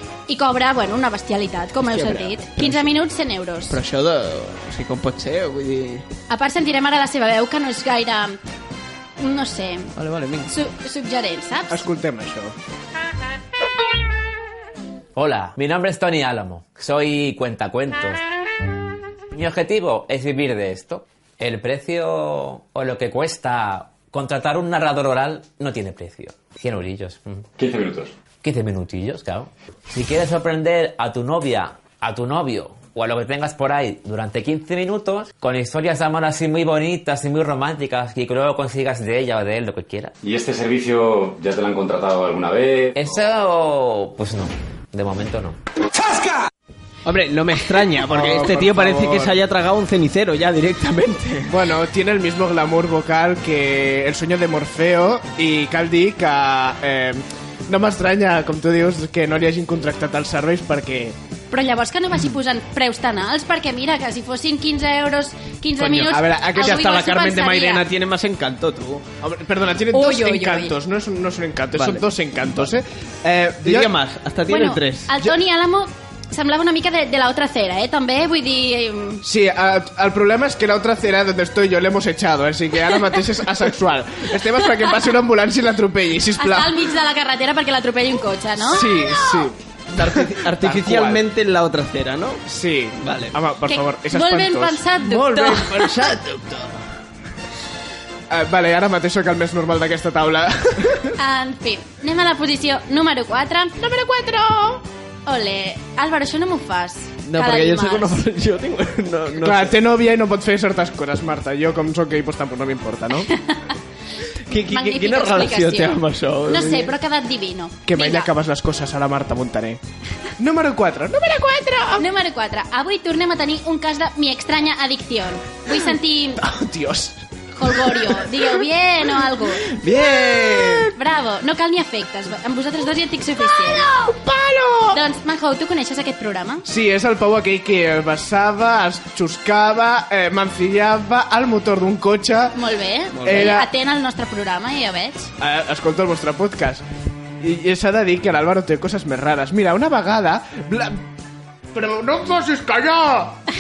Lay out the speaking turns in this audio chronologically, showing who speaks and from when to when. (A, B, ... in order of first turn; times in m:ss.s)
0:00.3-0:03.8 A
0:01.9-0:02.2 B
0:02.6-0:02.9 C
0:03.7-0:06.0 C
0:06.3-0:08.4 A
0:09.2-0:09.9 A
0:10.0-0:10.5 C
0:10.5-0:11.8 A
0:11.7-0:12.5 B
0:15.2-0:18.2 D
0:19.3-0:27.5 D
0:27.6-0:28.1 E
0:28.4-0:40.1 D
0:40.2-0:43.2 E
0:43.0-0:45.6 D
0:47.0-0:51.5 C
0:48.0-0:49.4 B
0:51.5-1:01.2 B
1:01.5-1:07.9 A
1:05.8-1:09.1 C
1:06.1-1:06.8 B
1:09.2-1:13.9 B
1:09.9-1:10.7 A
1:11.7-1:12.7 C
1:13.6-1:15.3 C
1:14.5-1:19.2 A
1:19.2-1:26.8 B
1:26.4-1:29.0 A
1:28.7-1:31.2 B
1:29.9-1:32.4 C
1:32.5-1:34.8 B
1:33.0-1:33.4 C
1:33.7-1:36.0 A
1:35.0-1:36.8 C
1:38.3-1:41.2 B
1:41.2-1:43.8 A
1:43.8-1:44.8 B
1:45.3-1:48.2 A
1:47.2-1:49.8 C
1:49.4-1:53.3 B
1:53.3-1:53.7 A
1:54.5-1:57.0 C
1:54.6-1:58.3 A
1:57.9-1:59.8 B
2:00.4-2:02.0 B
2:02.0-2:06.4 A
2:06.4-2:08.4 B
2:07.6-2:09.7 A
2:09.8-2:10.9 C
2:09.8-2:10.8 B
2:10.9-2:13.9 A
2:13.7-2:15.0 B
2:14.9-2:16.6 A
2:16.6-2:22.6 B
2:22.5-2:25.3 A
2:23.1-2:23.6 C
2:23.2-2:23.7 B
2:25.4-2:26.8 B
2:27.4-2:31.0 B
2:31.7-2:33.4 B